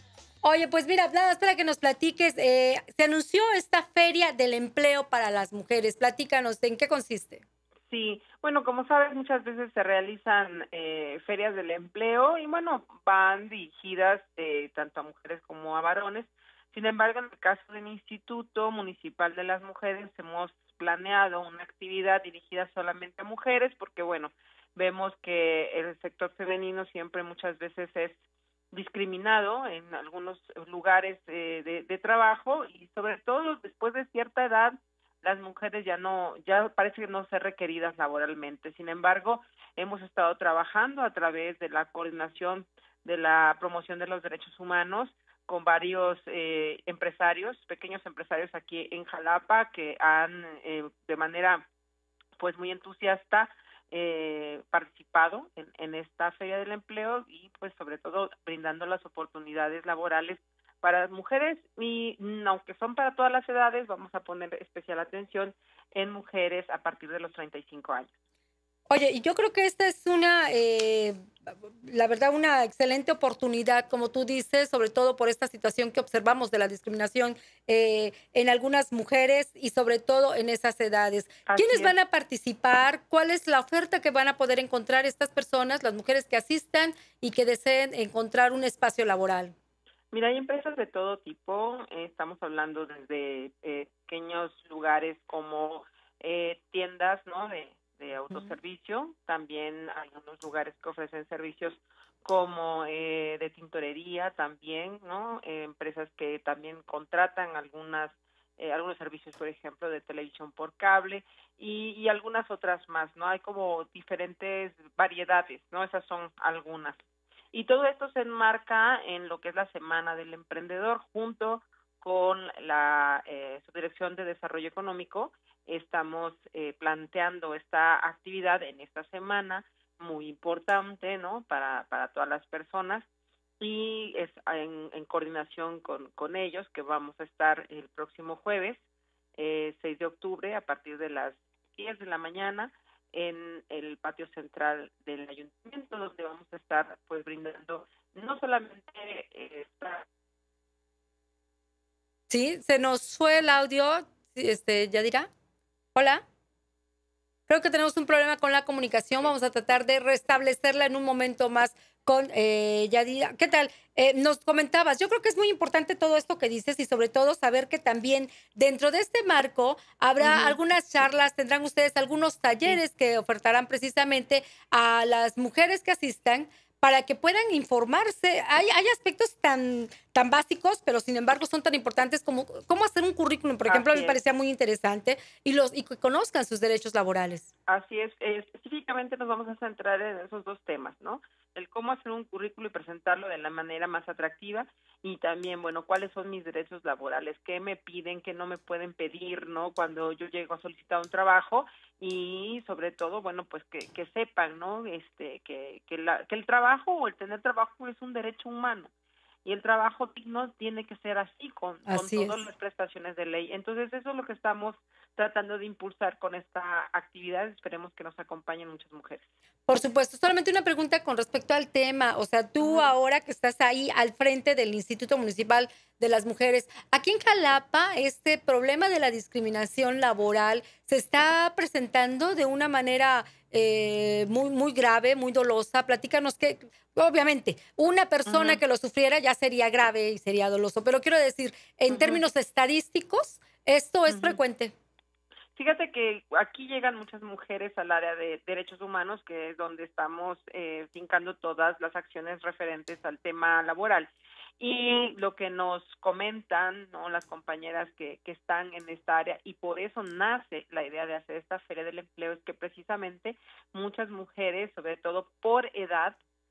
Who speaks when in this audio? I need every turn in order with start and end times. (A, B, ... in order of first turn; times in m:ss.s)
0:00.4-0:07.4 A
0:07.9-0:28.2 B
0:28.7-0:51.7 B
0:52.4-1:08.1 B
1:08.9-1:11.2 A
1:11.8-1:29.5 A
1:21.5-1:22.0 B
1:30.1-1:57.0 B
1:38.3-1:38.5 A
1:57.5-2:13.0 B
2:13.6-2:18.8 B
2:19.4-2:30.0 B
2:32.3-2:35.3 A
2:35.9-2:36.2 A
2:37.5-3:07.4 A
2:50.2-2:50.6 B
3:03.7-3:04.2 B
3:07.7-3:28.9 B
3:29.4-3:39.2 B
3:31.9-3:32.4 A
3:39.7-4:04.7 A
3:42.6-3:42.9 B
3:58.2-3:58.6 B
4:01.9-4:02.2 B
4:04.1-4:04.4 B
4:05.5-4:26.2 B